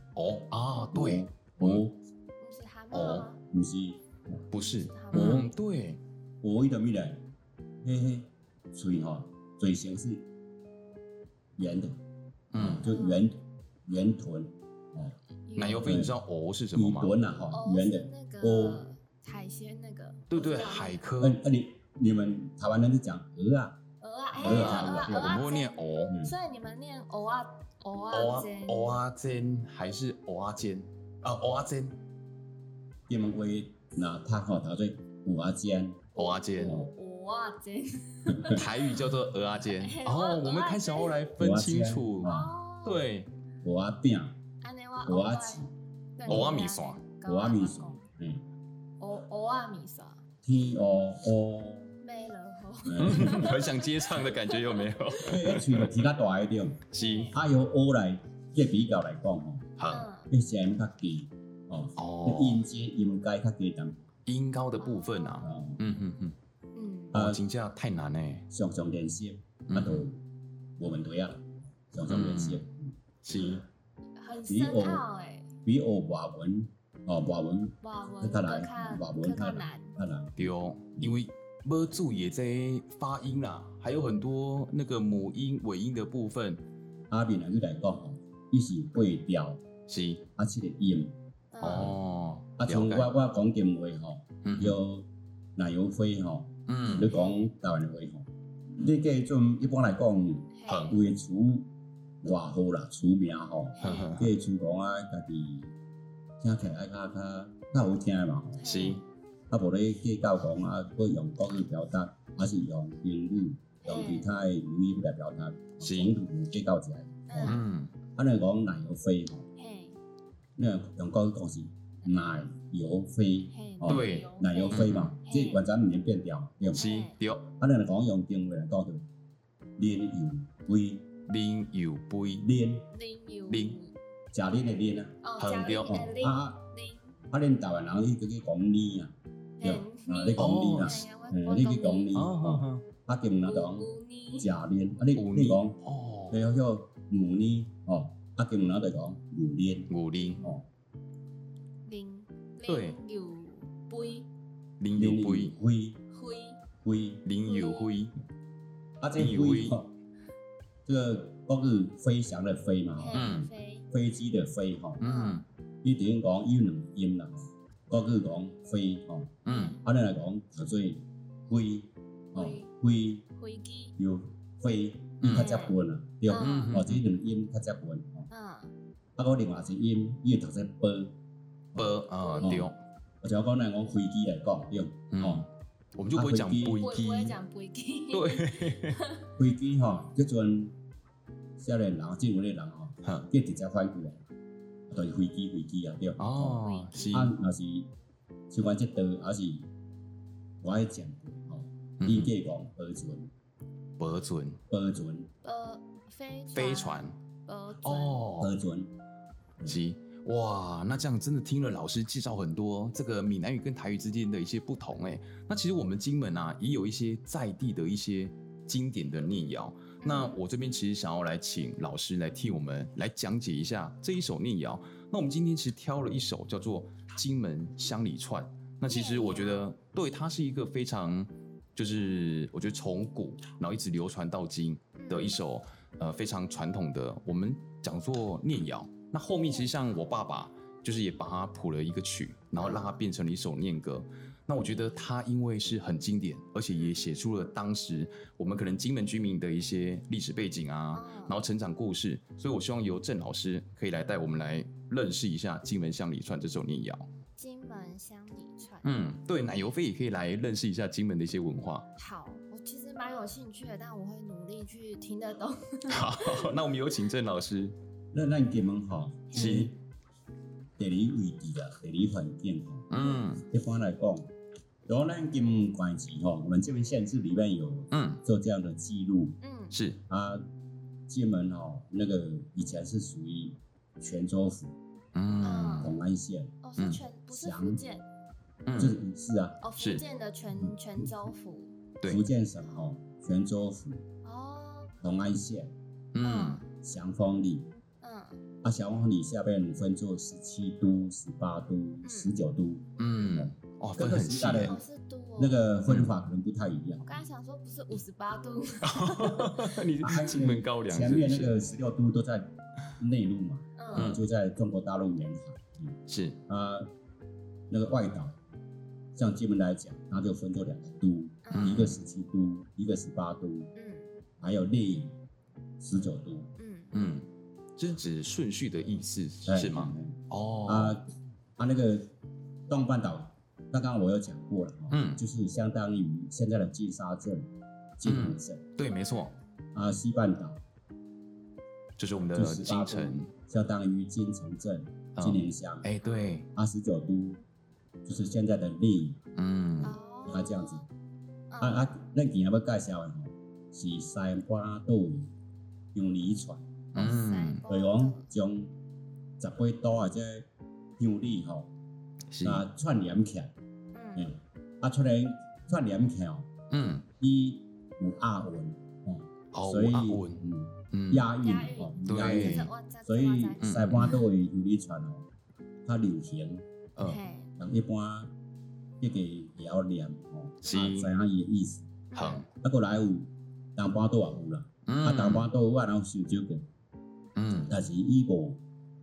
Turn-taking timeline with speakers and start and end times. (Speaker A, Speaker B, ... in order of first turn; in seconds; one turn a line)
Speaker A: 0.1-1.8
Speaker B: 0.9-2.0
Speaker C: 2.4-3.4
Speaker A: 2.9-3.2
Speaker B: 3.4-4.4
Speaker A: 4.5-6.0
Speaker C: 4.8-5.5
Speaker B: 5.1-5.5
Speaker B: 6.4-7.2
Speaker B: 7.8-10.3
Speaker B: 11.6-12.0
Speaker A: 12.5-12.8
Speaker B: 12.6-15.2
Speaker C: 12.8-13.2
Speaker C: 15.4-16.0
Speaker A: 15.6-17.2
Speaker B: 15.8-16.1
Speaker B: 16.7-18.9
Speaker C: 17.5-21.0
Speaker A: 20.3-21.4
Speaker B: 21.2-23.8
Speaker C: 24.0-29.0
Speaker B: 24.3-25.4
Speaker A: 24.4-26.1
Speaker B: 26.1-26.3
Speaker A: 28.1-32.0
Speaker B: 33.1-36.1
Speaker A: 36.1-36.8
Speaker C: 36.1-38.7
Speaker B: 36.6-36.9
Speaker B: 38.3-38.6
Speaker A: 38.5-43.3
Speaker C: 39.7-41.2
Speaker B: 41.4-42.5
Speaker C: 42.2-43.0
Speaker B: 43.6-44.4
Speaker C: 44.6-45.6
Speaker B: 45.0-45.7
Speaker C: 46.2-48.0
Speaker A: 46.2-47.0
Speaker B: 46.3-46.5
Speaker B: 47.2-48.4
Speaker C: 49.0-50.2
Speaker B: 50.4-52.0
Speaker C: 52.0-55.0
Speaker B: 52.8-53.5
Speaker A: 53.0-55.9
Speaker B: 55.2-59.7
Speaker A: 56.9-57.3
Speaker C: 56.9-57.4
Speaker A: 59.8-60.1
Speaker C: 59.9-60.3
Speaker B: 60.3-64.1
Speaker A: 62.0-62.6
Speaker A: 64.2-66.3
Speaker C: 64.8-65.5
Speaker B: 65.4-65.8
Speaker C: 66.7-67.1
Speaker B: 67.1-67.4
Speaker A: 67.1-68.5
Speaker B: 68.5-70.2
Speaker A: 69.7-70.0
Speaker B: 70.8-73.6
Speaker A: 72.0-72.6
Speaker A: 73.2-73.6
Speaker C: 74.2-75.5
Speaker B: 74.5-75.0
Speaker B: 75.6-81.2
Speaker C: 77.8-80.0
Speaker A: 80.4-86.6
Speaker B: 87.1-89.6
Speaker A: 89.9-90.2
Speaker B: 90.3-91.2
Speaker C: 91.5-91.9
Speaker A: 91.6-93.1
Speaker B: 92.6-101.7
Speaker A: 94.4-94.8
Speaker A: 96.7-97.1
Speaker C: 97.1-97.5
Speaker C: 100.5-100.9
Speaker A: 100.7-101.0
Speaker B: 102.2-105.7
Speaker C: 103.8-104.1
Speaker A: 103.8-104.3
Speaker B: 106.4-108.6
Speaker C: 108.6-109.0
Speaker A: 108.6-109.0
Speaker B: 109.5-117.6
Speaker C: 113.8-114.3
Speaker A: 115.8-116.1
Speaker C: 117.3-117.6
Speaker A: 117.4-117.9
Speaker B: 118.1-119.5
Speaker C: 119.6-120.0
Speaker B: 120.6-126.9
Speaker C: 123.5-125.6
Speaker A: 123.8-125.1
Speaker C: 126.7-127.1
Speaker A: 126.7-127.5
Speaker B: 127.5-129.1
Speaker B: 129.8-131.1
Speaker A: 131.3-132.4
Speaker B: 132.4-132.9
Speaker C: 132.9-133.9
Speaker A: 133.5-133.8
Speaker B: 134.3-135.2
Speaker C: 135.2-137.2
Speaker A: 135.4-136.1
Speaker B: 136.1-136.7
Speaker B: 137.3-145.8
Speaker C: 139.6-142.1
Speaker A: 140.4-141.0
Speaker A: 142.1-142.8
Speaker C: 143.4-144.5
Speaker A: 145.1-146.4
Speaker B: 146.3-150.7
Speaker A: 149.9-150.5
Speaker C: 151.8-154.3
Speaker A: 152.7-153.0
Speaker A: 154.8-155.6
Speaker B: 154.9-156.0
Speaker C: 156.1-156.6
Speaker B: 156.8-157.2
Speaker A: 157.2-158.1
Speaker C: 157.4-157.9
Speaker B: 159.0-159.9
Speaker A: 159.2-159.8
Speaker B: 160.8-165.0
Speaker C: 163.0-163.8
Speaker A: 163.1-163.5
Speaker A: 165.0-165.4
Speaker C: 165.0-165.4
Speaker B: 165.8-173.3
Speaker A: 169.4-169.8
Speaker C: 169.5-169.8
Speaker C: 172.3-172.7
Speaker C: 173.4-173.9
Speaker B: 174.0-178.3
Speaker A: 175.2-175.5
Speaker C: 175.3-175.8
Speaker C: 176.3-176.7
Speaker A: 176.3-177.0
Speaker C: 178.3-178.7
Speaker B: 179.2-181.2
Speaker B: 181.7-185.4
Speaker A: 181.8-182.8
Speaker C: 182.2-182.6
Speaker A: 185.1-187.4
Speaker B: 186.1-186.9
Speaker C: 186.8-189.3
Speaker A: 188.1-189.0
Speaker B: 189.4-190.8
Speaker B: 191.6-194.2
Speaker B: 194.9-197.9
Speaker A: 196.2-197.3
Speaker C: 196.6-197.3
Speaker B: 198.5-199.7
Speaker B: 200.6-203.3
Speaker A: 202.0-202.3
Speaker A: 204.0-204.6
Speaker B: 204.7-205.3
Speaker C: 205.4-208.2
Speaker A: 206.5-207.2
Speaker A: 207.8-208.5
Speaker B: 208.4-208.9
Speaker A: 209.6-257.1
Speaker C: 220.0-220.4
Speaker C: 228.8-229.7
Speaker C: 234.9-235.4
Speaker C: 242.6-242.9
Speaker C: 250.9-251.4
Speaker C: 257.4-258.9
Speaker A: 258.8-261.9
Speaker C: 262.0-266.5
Speaker A: 265.9-267.7
Speaker B: 268.1-269.7
Speaker C: 269.3-269.7
Speaker A: 269.3-269.7
Speaker B: 270.8-272.9
Speaker A: 272.9-273.4
Speaker B: 273.4-274.3
Speaker B: 274.9-279.4
Speaker A: 277.9-278.2
Speaker C: 279.4-279.8
Speaker A: 279.7-280.0
Speaker B: 280.1-280.4
Speaker B: 281.1-284.7
Speaker A: 285.1-285.9
Speaker C: 285.4-285.9
Speaker B: 285.8-286.6
Speaker C: 286.6-288.0
Speaker B: 287.3-287.8
Speaker A: 288.6-289.0
Speaker B: 288.8-289.6
Speaker C: 289.6-291.7
Speaker A: 289.8-290.0
Speaker B: 290.6-291.1
Speaker B: 292.0-294.0
Speaker C: 294.2-294.9
Speaker B: 295.0-295.7
Speaker A: 296.1-296.6
Speaker C: 296.2-296.6
Speaker B: 296.8-297.7
Speaker C: 298.0-298.4
Speaker B: 298.6-304.8
Speaker C: 302.0-302.3
Speaker A: 303.0-304.8
Speaker C: 304.6-305.6
Speaker B: 305.4-307.2
Speaker A: 305.9-306.1
Speaker C: 307.1-309.8
Speaker A: 308.8-311.6
Speaker B: 310.0-316.9
Speaker C: 313.8-314.1
Speaker A: 313.9-314.2
Speaker A: 316.1-316.4
Speaker B: 317.7-318.4
Speaker B: 319.1-323.7
Speaker C: 321.4-321.8
Speaker A: 321.5-322.0
Speaker C: 323.7-324.2
Speaker B: 324.4-325.2
Speaker B: 325.8-326.5
Speaker C: 326.6-327.0
Speaker A: 326.9-331.0
Speaker B: 329.4-331.1
Speaker B: 331.6-332.1
Speaker B: 332.7-338.7
Speaker A: 334.9-335.2
Speaker A: 338.0-339.3
Speaker C: 338.8-339.3
Speaker B: 339.7-340.6
Speaker A: 342.0-343.3
Speaker B: 342.3-345.9
Speaker A: 345.2-346.5
Speaker B: 346.5-347.4
Speaker B: 348.0-349.2
Speaker A: 349.4-350.0
Speaker C: 349.8-350.9
Speaker B: 350.2-350.9
Speaker C: 351.5-351.9
Speaker B: 351.6-355.3
Speaker B: 355.9-358.7
Speaker A: 356.9-357.6
Speaker C: 357.0-358.3
Speaker B: 359.4-360.5
Speaker B: 361.0-361.7
Speaker A: 362.3-362.6
Speaker B: 362.4-363.5
Speaker C: 363.9-364.3
Speaker B: 364.1-366.5
Speaker A: 366.7-367.1
Speaker B: 367.2-375.3
Speaker A: 369.5-371.3
Speaker C: 371.4-373.7
Speaker A: 372.0-372.7
Speaker A: 373.6-374.2
Speaker B: 375.8-376.7
Speaker A: 376.9-377.2
Speaker C: 377.0-377.5
Speaker B: 377.6-378.3
Speaker B: 379.0-381.9
Speaker A: 380.6-381.1
Speaker C: 382.1-382.4
Speaker A: 382.1-382.5
Speaker B: 382.5-386.7
Speaker A: 384.9-385.5
Speaker A: 387.4-387.7
Speaker B: 387.6-388.6